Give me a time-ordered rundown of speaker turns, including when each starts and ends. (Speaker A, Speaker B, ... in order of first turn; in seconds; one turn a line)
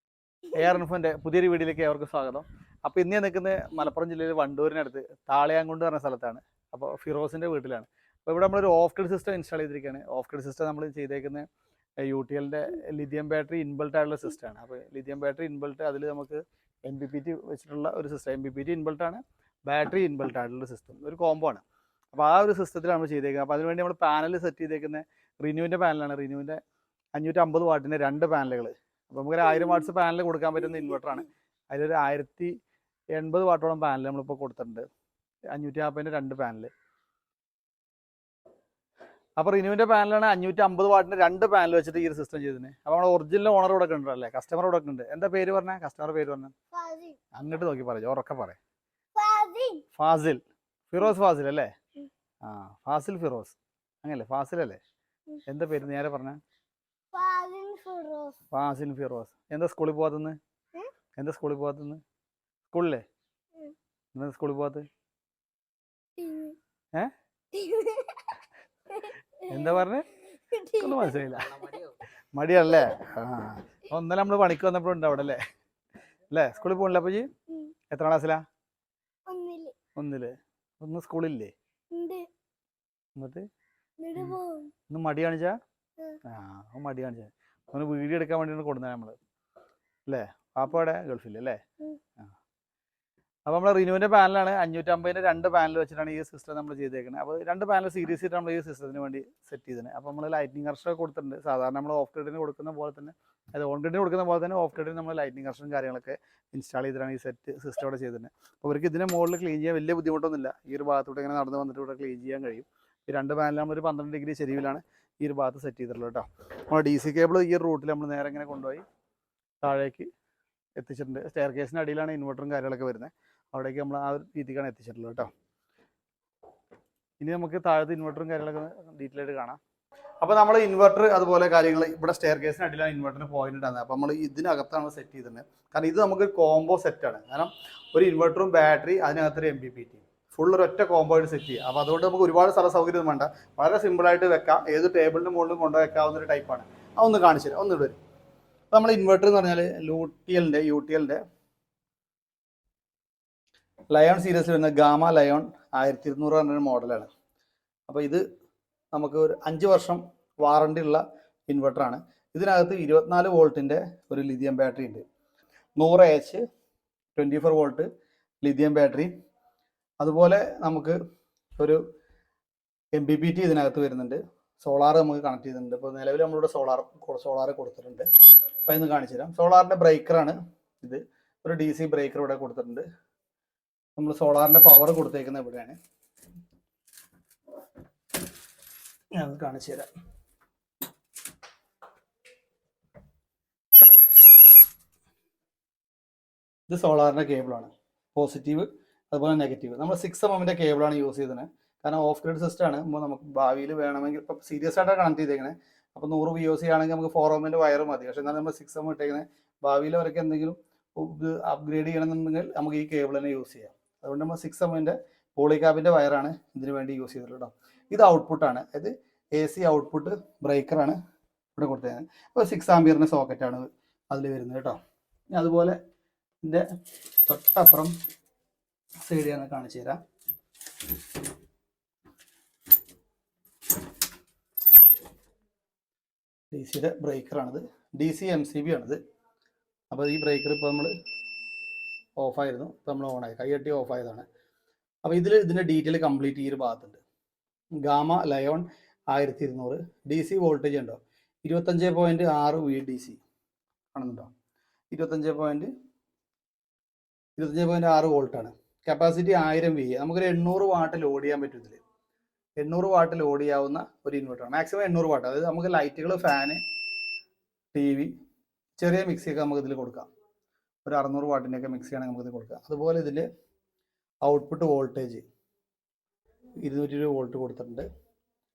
Speaker A: 0.5-11.5
Speaker A: 12.0-26.6
Speaker A: 27.1-32.5
Speaker A: 33.1-34.9
Speaker A: 35.5-36.7
Speaker A: 39.4-46.5
Speaker B: 46.7-47.2
Speaker A: 47.3-48.6
Speaker B: 49.1-49.8
Speaker A: 49.9-51.7
Speaker A: 52.4-54.8
Speaker A: 55.5-56.4
Speaker B: 57.1-58.3
Speaker A: 58.5-60.4
Speaker A: 61.1-62.0
Speaker A: 62.7-63.0
Speaker A: 64.1-64.8
Speaker B: 66.2-66.6
Speaker B: 67.5-69.5
Speaker A: 69.5-70.1
Speaker B: 70.3-71.2
Speaker A: 70.7-75.4
Speaker A: 76.3-77.3
Speaker A: 77.9-78.4
Speaker B: 79.3-79.7
Speaker A: 79.9-81.5
Speaker B: 81.9-82.3
Speaker A: 83.1-83.5
Speaker B: 84.0-84.7
Speaker A: 84.9-85.6
Speaker A: 86.2-89.2
Speaker A: 90.1-91.6
Speaker A: 93.5-118.8
Speaker A: 119.6-120.1
Speaker A: 120.8-125.3
Speaker A: 127.2-129.6
Speaker A: 130.2-148.0
Speaker A: 148.7-151.2
Speaker A: 153.9-157.1
Speaker A: 157.9-158.2
Speaker A: 158.9-165.0
Speaker A: 165.8-166.4
Speaker A: 167.1-167.9
Speaker A: 168.4-169.1
Speaker A: 170.0-171.0
Speaker A: 172.9-178.1
Speaker A: 178.7-182.8
Speaker A: 183.9-185.8
Speaker A: 189.1-189.9
Speaker A: 196.7-221.0
Speaker A: 221.6-224.8
Speaker A: 225.3-225.8
Speaker A: 227.2-227.9
Speaker A: 229.0-230.0
Speaker A: 236.5-239.0
Speaker A: 239.9-240.9
Speaker A: 242.2-244.2
Speaker A: 245.0-247.0
Speaker A: 247.8-253.2
Speaker A: 253.9-254.3
Speaker A: 254.9-255.7
Speaker A: 257.4-261.8
Speaker A: 262.6-266.6
Speaker A: 267.7-268.1
Speaker A: 268.8-270.1
Speaker A: 270.8-273.3
Speaker A: 274.2-275.2
Speaker A: 276.6-277.9